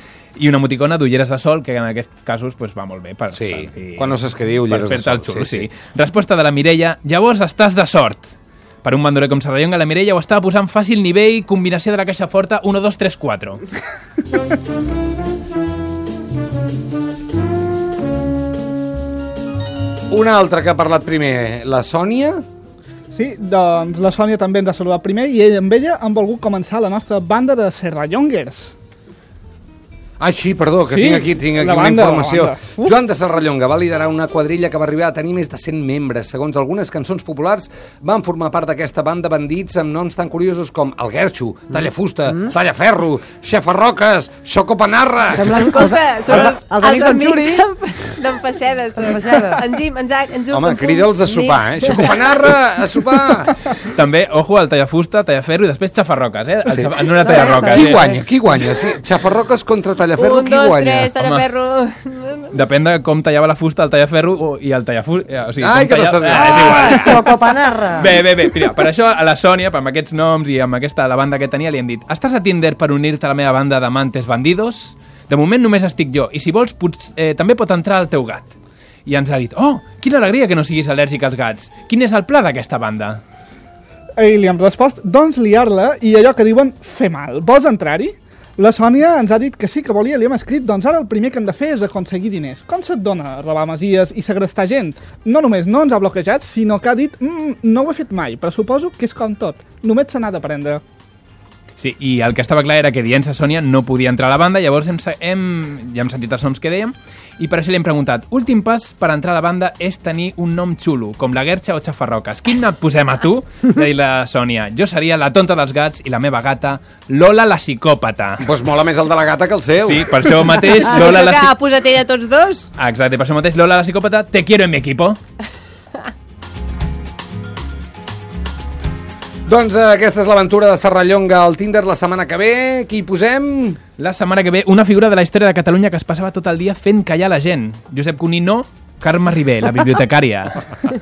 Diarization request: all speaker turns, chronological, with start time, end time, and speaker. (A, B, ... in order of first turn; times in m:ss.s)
0:00.4-0:13.6 A
0:03.3-0:05.7 B
0:20.1-0:22.4 B
0:23.1-0:28.8 C
0:30.2-0:45.6 B
0:30.9-0:33.0 C
0:45.3-0:47.7 D
0:45.6-0:51.1 E
0:49.0-0:49.6 D
0:50.5-0:53.6 B
0:51.3-0:52.1 D
0:53.8-0:58.0 A
0:56.7-1:01.1 B
0:57.2-0:58.2 D
1:00.2-1:02.5 E
1:01.2-1:01.5 A
1:02.5-1:07.0 A
1:05.6-1:07.2 B
1:06.3-1:08.1 D
1:07.9-1:18.5 A
1:19.1-1:23.2 A
1:24.2-1:40.8 C
1:41.8-1:58.4 A
1:58.4-2:00.1 B
1:59.8-2:01.5 A
2:00.7-2:02.7 E
2:02.8-2:05.2 A
2:09.5-2:13.8 B
2:14.0-2:20.6 A